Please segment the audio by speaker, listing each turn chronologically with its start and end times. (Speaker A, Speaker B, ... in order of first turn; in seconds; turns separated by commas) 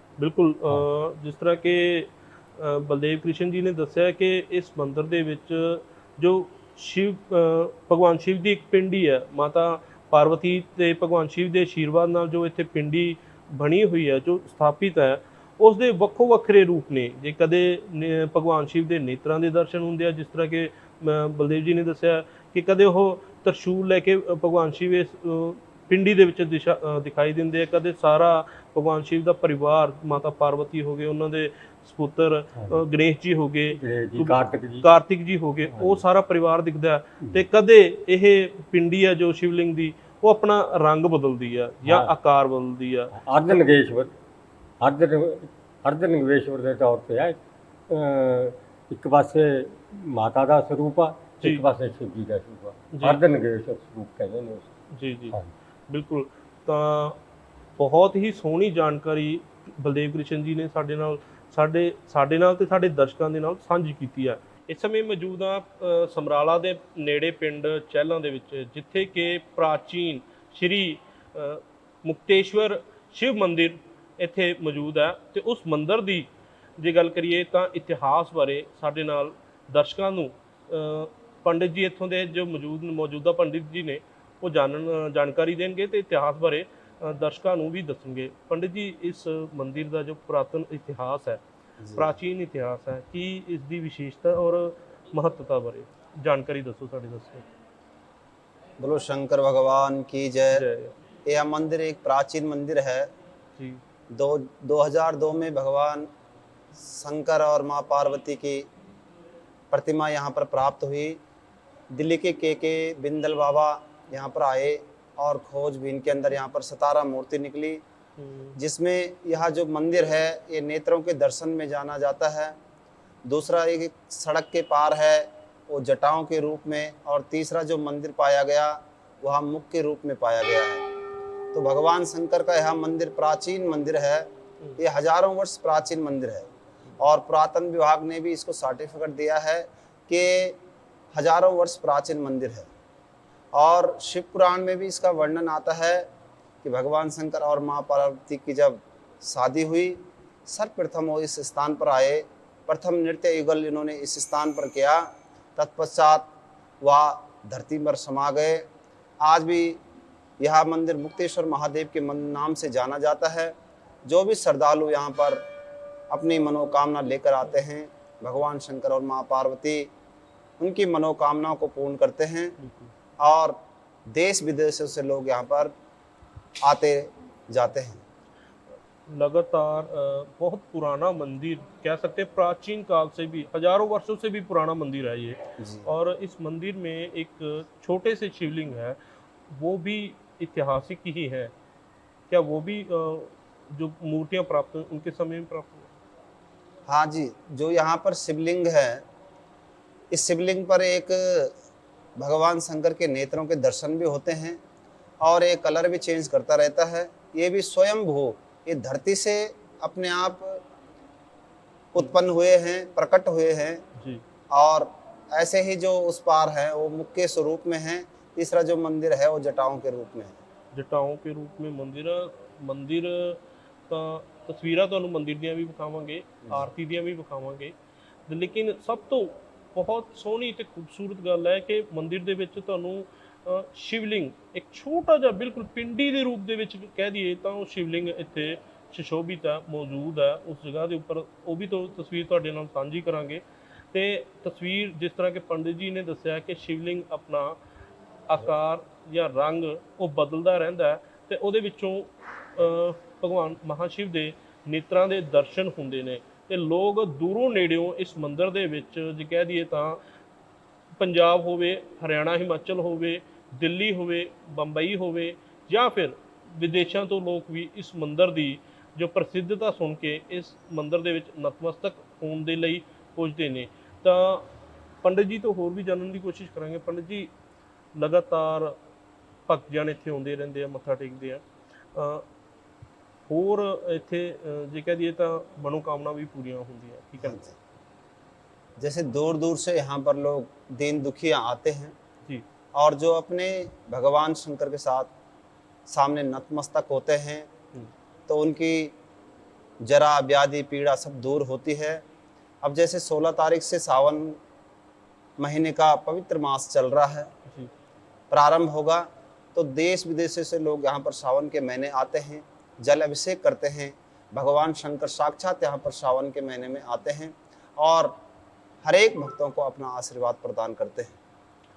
Speaker A: 0.2-43.1, Speaker B: 32.5-32.8, Speaker B: 33.7-34.9, Speaker B: 35.7-36.0, Speaker B: 41.9-42.1, Speaker B: 43.1-44.1, Speaker B: 44.8-47.4, Speaker B: 47.9-54.7, Speaker A: 52.9-53.2, Speaker A: 54.9-55.4, Speaker A: 55.9-57.2, Speaker A: 57.8-91.4, Speaker C: 91.8-92.1, Speaker A: 92.0-97.5, Speaker C: 98.8-100.7, Speaker A: 100.5-101.0, Speaker C: 101.3-103.1, Speaker C: 104.1-106.1, Speaker C: 106.8-108.7, Speaker C: 109.7-111.2, Speaker C: 111.9-117.8, Speaker A: 118.2-118.6, Speaker C: 118.6-122.6, Speaker C: 123.2-130.8, Speaker C: 131.5-136.5, Speaker C: 137.0-140.6, Speaker C: 141.1-142.7, Speaker C: 143.5-146.1, Speaker C: 146.6-156.3, Speaker C: 156.8-158.7, Speaker C: 159.2-159.8, Speaker C: 160.4-165.4, Speaker C: 166.1-169.9, Speaker C: 170.6-172.6, Speaker A: 172.6-172.9, Speaker C: 173.2-173.6, Speaker C: 174.1-175.7, Speaker C: 176.7-178.0, Speaker A: 179.1-189.0, Speaker C: 185.6-185.9, Speaker A: 189.5-191.5, Speaker A: 192.3-195.9, Speaker C: 196.9-199.1, Speaker C: 200.1-201.5, Speaker C: 202.2-204.6, Speaker C: 205.2-210.6, Speaker C: 211.9-213.8, Speaker C: 214.5-220.4, Speaker A: 220.7-227.7, Speaker A: 228.3-247.6, Speaker A: 248.3-260.0, Speaker A: 261.0-274.5, Speaker A: 275.0-277.3, Speaker A: 277.9-278.8, Speaker A: 279.5-281.4, Speaker A: 281.9-282.2, Speaker A: 283.3-287.5, Speaker C: 287.2-287.5, Speaker C: 288.8-291.9, Speaker C: 292.8-295.1, Speaker C: 295.9-297.5, Speaker C: 298.3-298.9, Speaker C: 299.8-302.0, Speaker C: 302.6-304.4, Speaker C: 305.4-307.3, Speaker C: 308.3-318.1, Speaker C: 318.8-321.2